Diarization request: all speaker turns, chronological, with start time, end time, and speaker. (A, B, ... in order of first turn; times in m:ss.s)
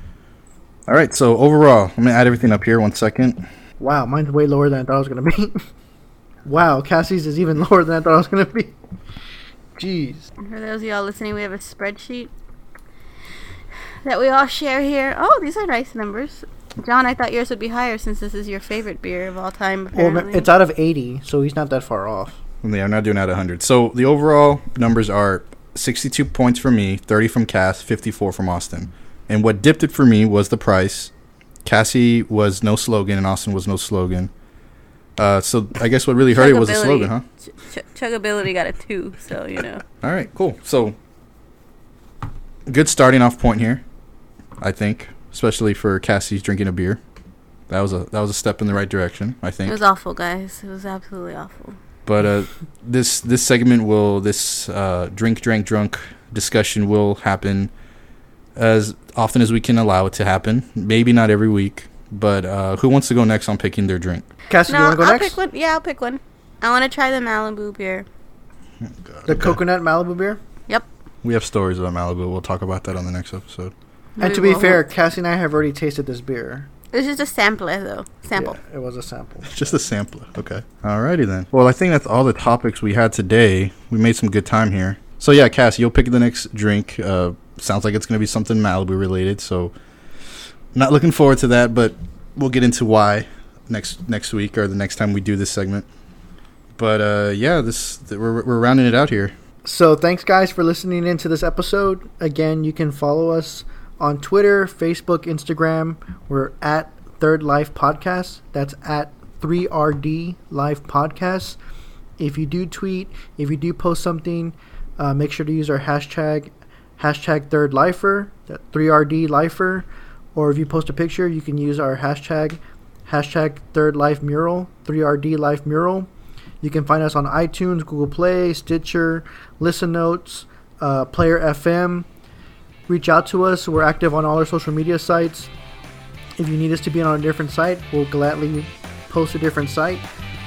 0:00.9-0:03.4 A
0:03.8-0:05.6 B
0:06.5-0:08.8 B
0:09.8-0:10.3 B
0:10.4-0:12.3 C
0:14.0-0:20.5 C
0:20.0-0:22.4 B
0:22.6-0:31.1 A
0:31.6-0:34.3 A
0:35.2-0:37.2 A
0:36.3-0:39.8 C
0:40.0-0:41.0 A
0:42.7-0:43.8 A
0:44.6-0:47.0 A
0:47.7-0:49.8 A
0:49.7-0:51.8 C
0:52.1-0:57.7 A
0:58.6-1:04.3 A
1:04.5-1:05.4 B
1:04.7-1:08.1 C
1:08.8-1:09.6 A
1:09.3-1:10.4 B
1:11.2-1:13.7 A
1:14.2-1:14.9 C
1:14.2-1:16.7 B
1:16.9-1:18.6 C
1:18.4-1:19.7 B
1:19.5-1:29.8 A
1:30.7-1:35.9 A
1:36.8-1:39.4 A
1:39.6-1:51.6 B
1:52.2-2:06.1 B
2:06.6-2:12.1 B
2:12.9-2:15.5 B
2:16.4-2:20.0 B